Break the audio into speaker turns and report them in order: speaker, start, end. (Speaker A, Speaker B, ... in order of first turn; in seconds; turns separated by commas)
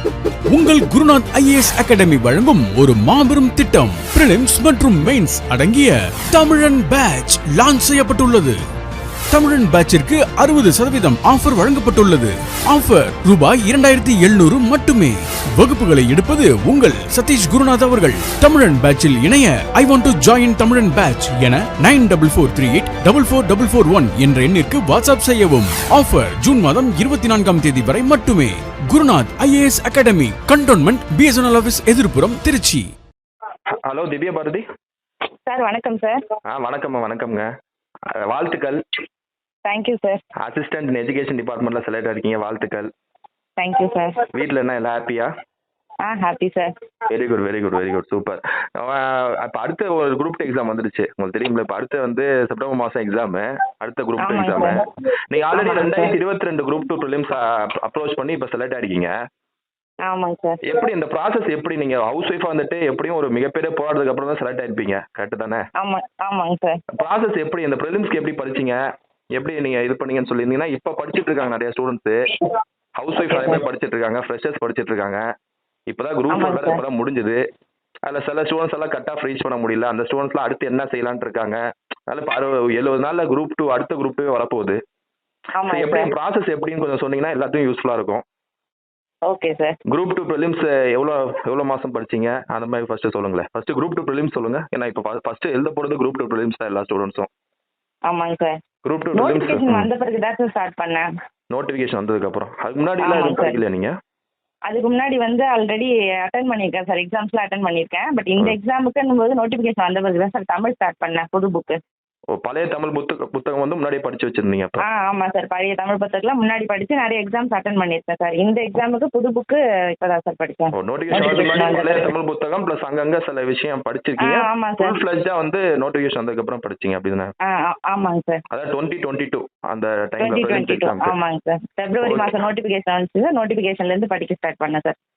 Speaker A: 0.4-8.6, Speaker A: 9.3-32.9, Speaker B: 33.9-34.6, Speaker C: 35.5-36.2, Speaker B: 36.5-37.5, Speaker B: 38.1-38.8, Speaker C: 39.6-40.2, Speaker B: 40.4-42.9, Speaker C: 43.6-44.3, Speaker B: 44.3-45.3, Speaker C: 46.0-46.7, Speaker B: 47.1-59.1, Speaker C: 54.2-54.8, Speaker C: 55.5-56.1, Speaker C: 60.0-60.6, Speaker B: 60.7-65.6, Speaker C: 65.8-66.8, Speaker B: 66.9-68.8, Speaker B: 69.3-72.2, Speaker B: 73.0-75.2, Speaker C: 73.2-73.6, Speaker B: 75.9-77.4, Speaker C: 76.3-76.8, Speaker B: 78.1-84.8, Speaker C: 85.6-86.1, Speaker B: 85.7-88.2, Speaker C: 89.3-89.8, Speaker B: 89.9-97.3, Speaker C: 98.1-98.5, Speaker B: 98.8-99.9, Speaker C: 99.1-101.1, Speaker B: 101.5-103.9, Speaker C: 103.0-103.6, Speaker C: 104.7-111.8, Speaker B: 112.3-114.8, Speaker C: 114.8-122.1, Speaker B: 120.8-127.3, Speaker C: 124.2-125.0, Speaker C: 127.5-128.4, Speaker B: 128.5-131.2, Speaker C: 130.2-134.9, Speaker B: 132.0-132.3